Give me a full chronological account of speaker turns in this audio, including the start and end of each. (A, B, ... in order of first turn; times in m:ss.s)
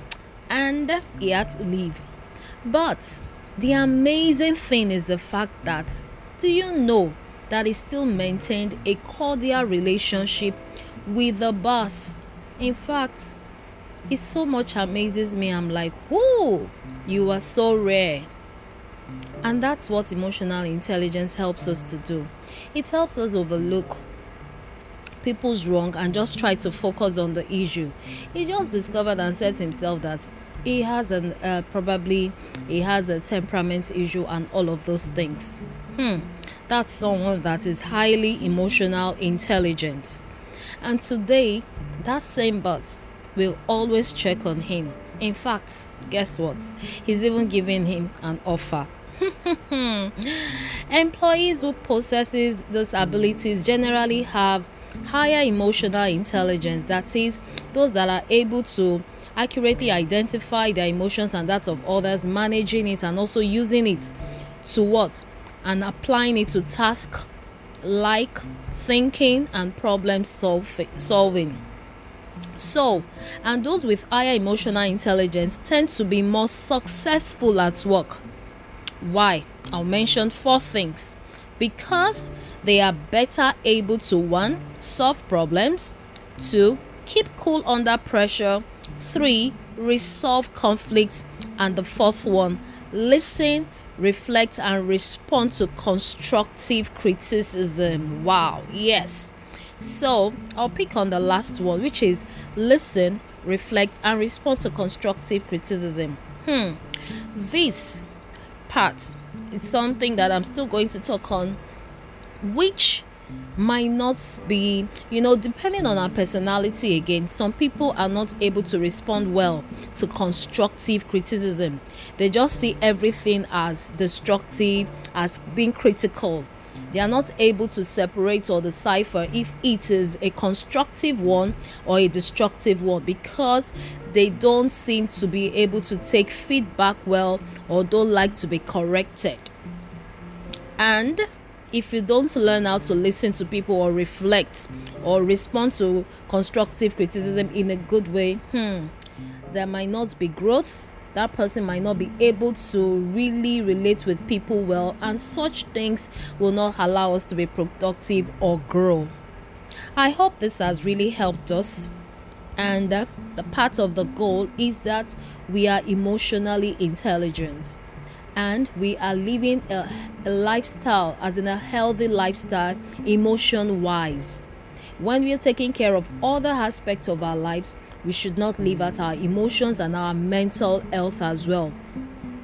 0:00.5-0:02.0 A
0:02.6-0:13.4 A
0:14.1-0:18.3 A
0:19.4-0:24.0 A
0:25.2-0:40.2 A
0:40.8-1:07.3 A
1:07.8-1:11.6 A
1:12.6-1:18.2 A
1:19.0-1:46.8 A
1:47.3-1:48.1 A
1:48.7-1:51.6 A
1:52.4-2:19.5 A
2:20.8-2:28.9 A
2:29.5-2:39.1 A
2:40.0-2:41.9 A
2:42.6-2:47.8 A
2:48.4-2:54.4 A
2:55.0-3:01.8 A